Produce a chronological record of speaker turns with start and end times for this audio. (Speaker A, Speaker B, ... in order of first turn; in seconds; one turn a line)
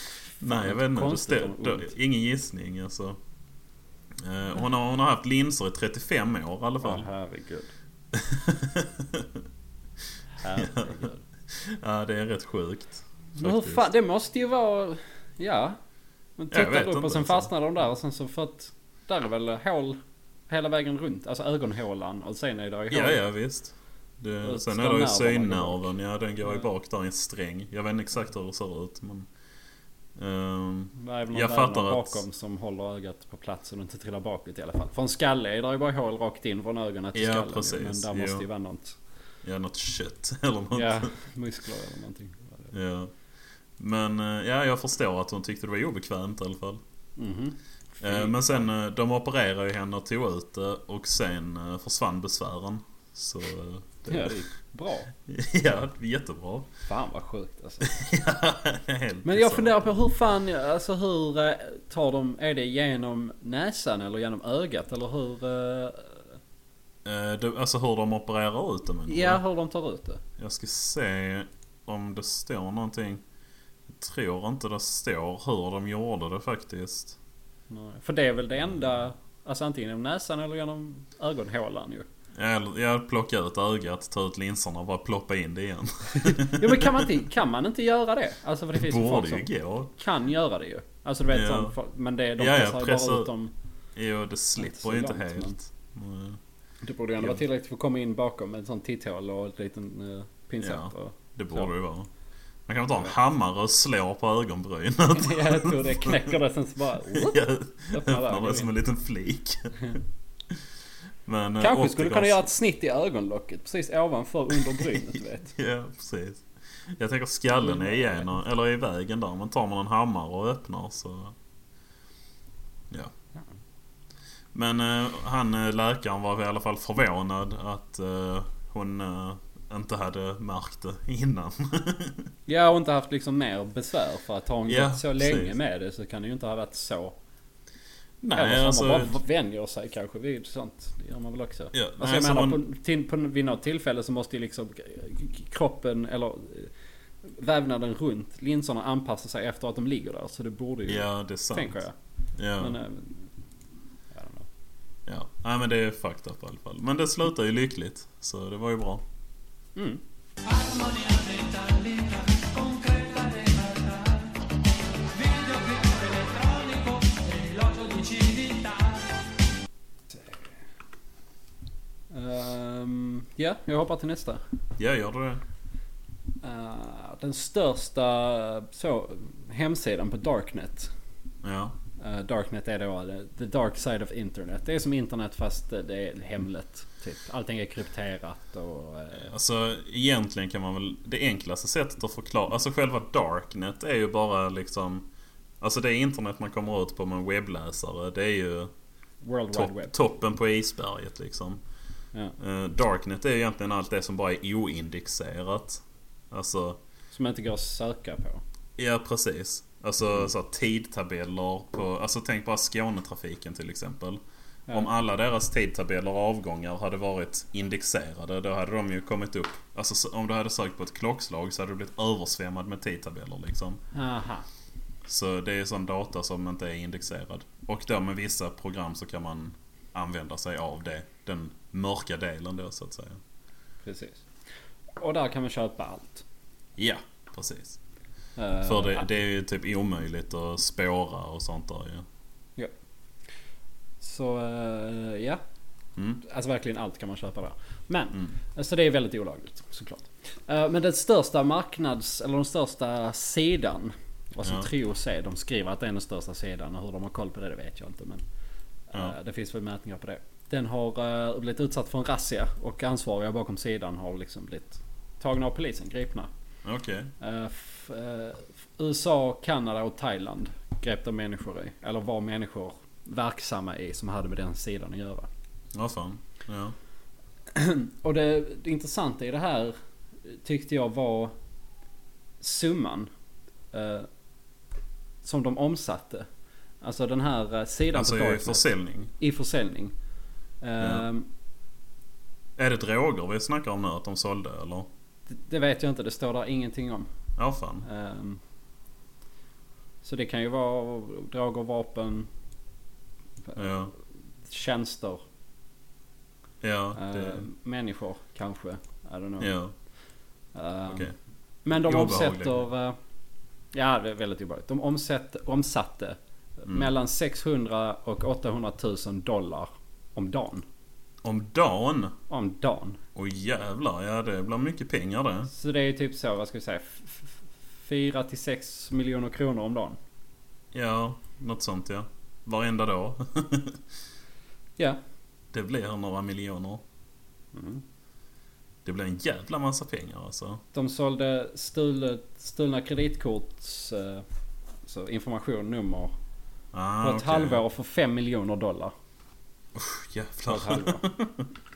Speaker A: 0.4-3.2
Speaker B: 0.4-1.9
Speaker A: 4.2-7.1
Speaker B: 6.8-7.7
Speaker A: 8.1-9.4
Speaker B: 10.4-11.2
Speaker A: 10.6-13.9
Speaker B: 13.4-15.8
Speaker B: 16.4-23.2
Speaker A: 16.5-17.5
Speaker A: 22.9-29.3
Speaker B: 24.4-25.9
Speaker A: 30.1-32.2
Speaker B: 30.9-39.0
Speaker A: 37.1-38.5
Speaker A: 39.4-41.1
Speaker B: 40.7-42.7
Speaker A: 42.7-43.1
Speaker A: 43.8-46.8
Speaker B: 47.2-48.5
Speaker A: 48.0-54.4
Speaker B: 54.1-55.1
Speaker A: 55.3-56.7
Speaker B: 56.9-57.9
Speaker A: 57.8-59.9
Speaker B: 59.2-66.2
Speaker A: 67.0-69.4
Speaker B: 69.1-70.2
Speaker A: 70.4-73.2
Speaker A: 73.9-77.2
Speaker B: 77.7-82.1
Speaker A: 82.3-87.1
Speaker B: 86.2-93.5
Speaker A: 88.7-89.9
Speaker A: 91.3-91.8
Speaker A: 92.4-93.3
Speaker A: 94.0-96.4
Speaker B: 94.6-95.6
Speaker B: 96.8-101.7
Speaker A: 100.6-102.1
Speaker A: 102.7-106.4
Speaker B: 105.1-108.7
Speaker A: 107.0-110.0
Speaker A: 111.3-112.5
Speaker B: 111.6-115.5
Speaker A: 114.7-121.4
Speaker B: 117.6-118.3
Speaker A: 124.5-132.3
Speaker B: 132.5-137.2
Speaker A: 134.7-135.6
Speaker A: 138.2-139.2
Speaker B: 138.3-146.7
Speaker A: 141.7-142.6
Speaker B: 147.2-151.9
Speaker A: 150.9-151.8
Speaker A: 152.4-152.8
Speaker B: 152.6-153.2
Speaker B: 154.1-154.5
Speaker A: 155.1-159.0
Speaker B: 159.8-160.0
Speaker C: 160.4-164.5
Speaker C: 165.0-169.3
Speaker B: 172.1-174.4
Speaker A: 174.8-175.4
Speaker B: 176.4-180.9
Speaker A: 181.4-181.8
Speaker B: 182.0-189.3
Speaker A: 189.1-195.1
Speaker A: 195.6-198.7
Speaker B: 199.2-199.9
Speaker A: 199.5-201.6
Speaker A: 202.4-206.8
Speaker B: 207.1-208.4
Speaker A: 208.8-223.8
Speaker B: 223.9-224.5
Speaker A: 225.1-233.2
Speaker B: 233.8-234.2
Speaker B: 235.0-236.2
Speaker A: 236.8-237.8
Speaker B: 238.4-239.1
Speaker A: 238.6-242.1
Speaker B: 244.0-245.4
Speaker A: 246.0-246.2
Speaker B: 246.2-258.2
Speaker A: 254.4-254.7
Speaker B: 258.9-266.3
Speaker A: 266.6-267.1
Speaker B: 267.2-275.3
Speaker A: 275.8-276.8
Speaker B: 277.5-279.8
Speaker B: 280.3-281.3
Speaker B: 282.4-283.1
Speaker B: 283.7-284.1
Speaker B: 285.2-286.3
Speaker B: 286.8-288.6
Speaker A: 287.9-289.1
Speaker B: 289.2-289.9
Speaker B: 290.6-291.3
Speaker A: 290.8-291.1
Speaker A: 292.6-294.9
Speaker B: 295.3-297.1
Speaker A: 297.4-297.9
Speaker B: 297.8-298.4
Speaker B: 300.0-302.3
Speaker B: 303.5-303.9
Speaker A: 303.6-303.9
Speaker B: 304.5-305.2
Speaker A: 306.6-307.4
Speaker B: 307.0-309.5
Speaker A: 309.4-309.7
Speaker B: 310.6-311.1
Speaker A: 310.9-311.1
Speaker B: 311.6-313.0
Speaker A: 311.8-312.7
Speaker B: 313.7-320.6
Speaker A: 321.2-322.1
Speaker B: 322.3-323.0
Speaker A: 323.1-325.5
Speaker B: 325.5-330.0
Speaker A: 330.7-333.8
Speaker A: 335.5-336.8
Speaker B: 337.5-337.8
Speaker A: 338.9-340.6
Speaker B: 340.7-344.2
Speaker B: 344.9-346.1
Speaker A: 346.7-347.6
Speaker B: 347.0-348.9
Speaker A: 349.8-351.5
Speaker B: 350.5-351.1